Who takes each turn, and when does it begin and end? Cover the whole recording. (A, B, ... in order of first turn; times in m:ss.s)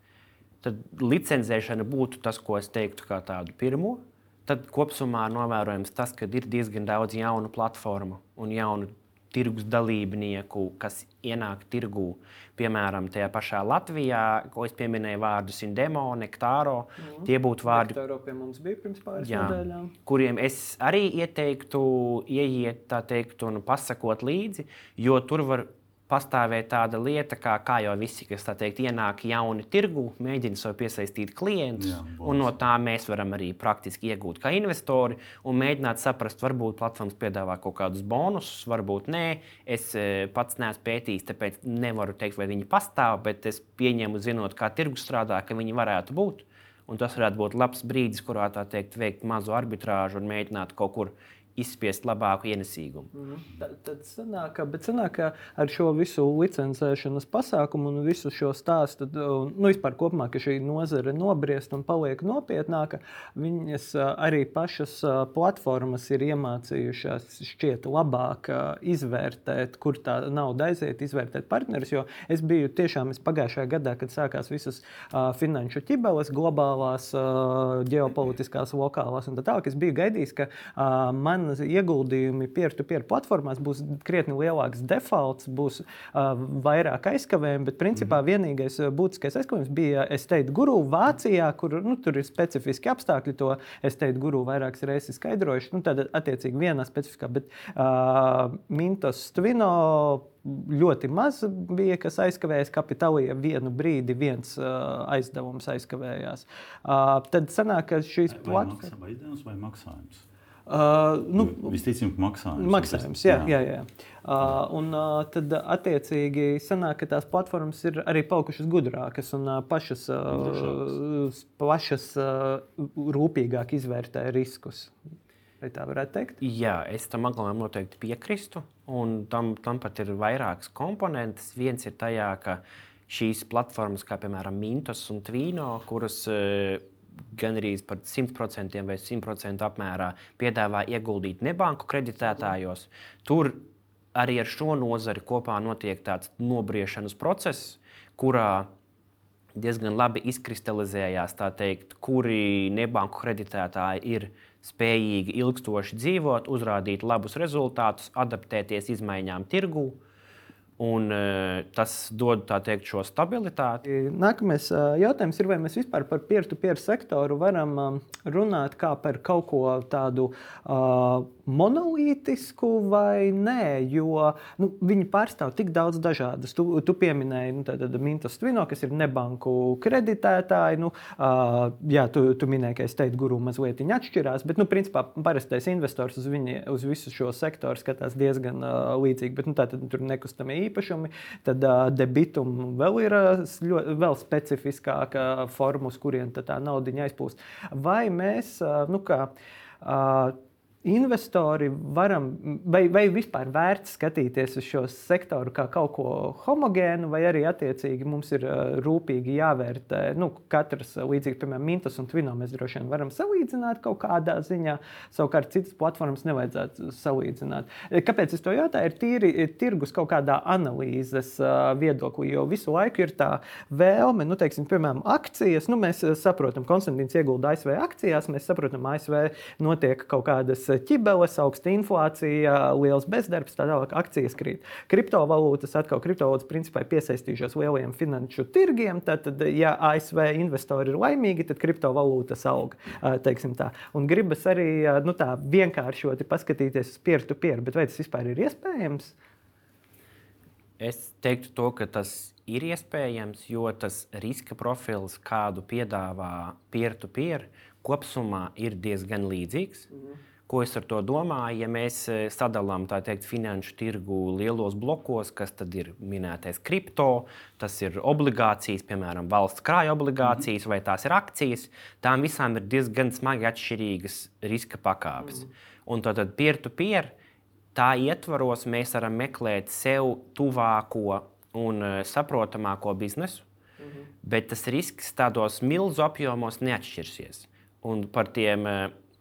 0:00.6-0:18.0 A
0:17.0-0:19.9 B
0:19.2-0:53.1 A
0:31.8-0:32.6 C
0:53.1-1:48.9 B
1:48.3-1:50.2 C
1:50.7-1:51.8 B
1:51.4-1:53.5 C
1:52.6-2:04.9 B
2:00.3-2:01.0 C
2:05.6-2:06.4 B
2:06.4-2:28.7 A
2:29.6-2:40.0 A
2:40.8-2:43.8 A
2:43.9-3:19.3 B
3:19.8-4:09.2 B
4:10.8-4:19.9 A
4:20.5-4:37.1 A
4:37.8-4:43.4 A
4:43.8-4:44.0 B
4:44.2-4:48.9 A